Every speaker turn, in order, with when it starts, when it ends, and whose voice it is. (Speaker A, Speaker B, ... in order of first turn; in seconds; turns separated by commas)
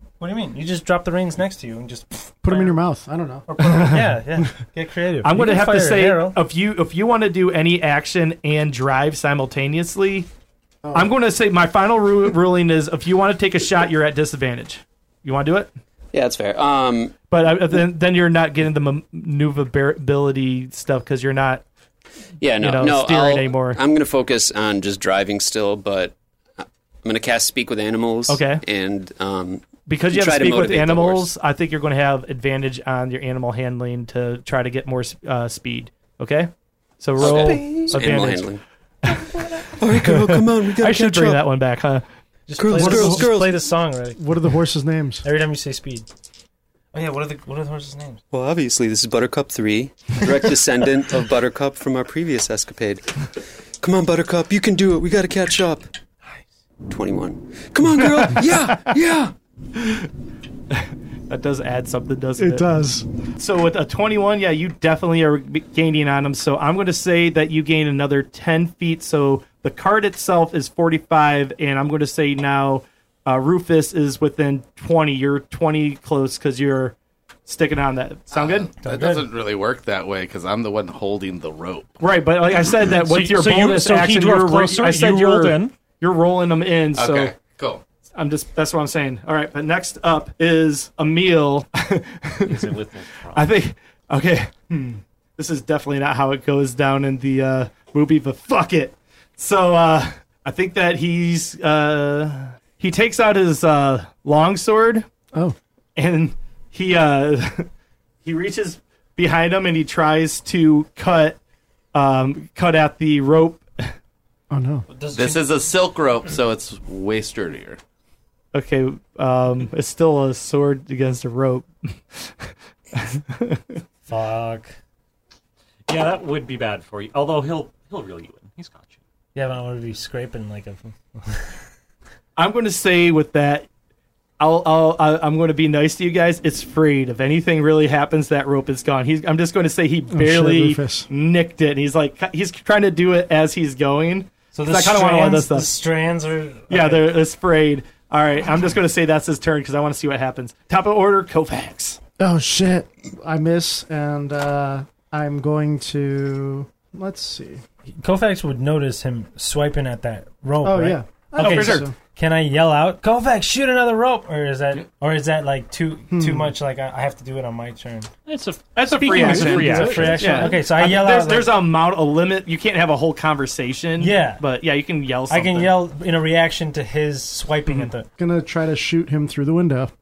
Speaker A: 0.2-2.8, Speaker B: 2.4-3.9, Speaker A: 3.6-6.4, Speaker C: 3.6-4.0, Speaker C: 5.2-10.3, Speaker B: 10.8-11.1, Speaker C: 10.9-15.7, Speaker D: 16.1-17.1, Speaker C: 17.3-21.6, Speaker D: 22.4-31.3, Speaker C: 22.6-23.8, Speaker C: 28.3-28.6, Speaker C: 29.9-39.4, Speaker D: 37.2-38.6, Speaker D: 39.6-41.4, Speaker C: 39.9-42.0, Speaker A: 42.5-44.2, Speaker D: 42.6-43.5, Speaker B: 42.7-43.3, Speaker B: 44.2-45.2, Speaker A: 45.2-46.1, Speaker A: 46.9-48.2, Speaker D: 48.3-53.2, Speaker D: 53.8-55.8, Speaker D: 56.9-59.3, Speaker C: 59.8-60.1, Speaker C: 60.7-62.6, Speaker B: 62.4-63.1, Speaker C: 63.4-76.9, Speaker C: 77.5-78.7, Speaker E: 78.3-81.9, Speaker A: 78.8-79.2, Speaker C: 82.0-87.4, Speaker F: 83.0-85.8, Speaker E: 86.9-87.8, Speaker C: 88.1-92.7, Speaker F: 92.4-93.5, Speaker C: 93.3-105.0, Speaker C: 106.0-107.7, Speaker C: 108.2-111.4, Speaker C: 111.9-113.9, Speaker B: 114.5-114.9, Speaker A: 114.9-115.5, Speaker E: 115.1-117.8, Speaker C: 118.5-123.8, Speaker A: 124.1-124.7, Speaker F: 125.9-129.0, Speaker A: 129.3-131.5, Speaker C: 132.3-133.7, Speaker C: 134.4-145.7, Speaker B: 140.1-141.1, Speaker A: 144.5-147.0, Speaker C: 146.7-152.0, Speaker B: 152.2-157.6, Speaker A: 158.0-168.1, Speaker B: 160.6-161.9, Speaker C: 161.4-161.9, Speaker B: 166.1-166.5, Speaker F: 168.2-170.5, Speaker C: 168.8-175.8, Speaker B: 169.1-170.5, Speaker A: 169.2-171.5, Speaker A: 174.0-174.4, Speaker A: 175.3-178.1, Speaker B: 178.2-179.9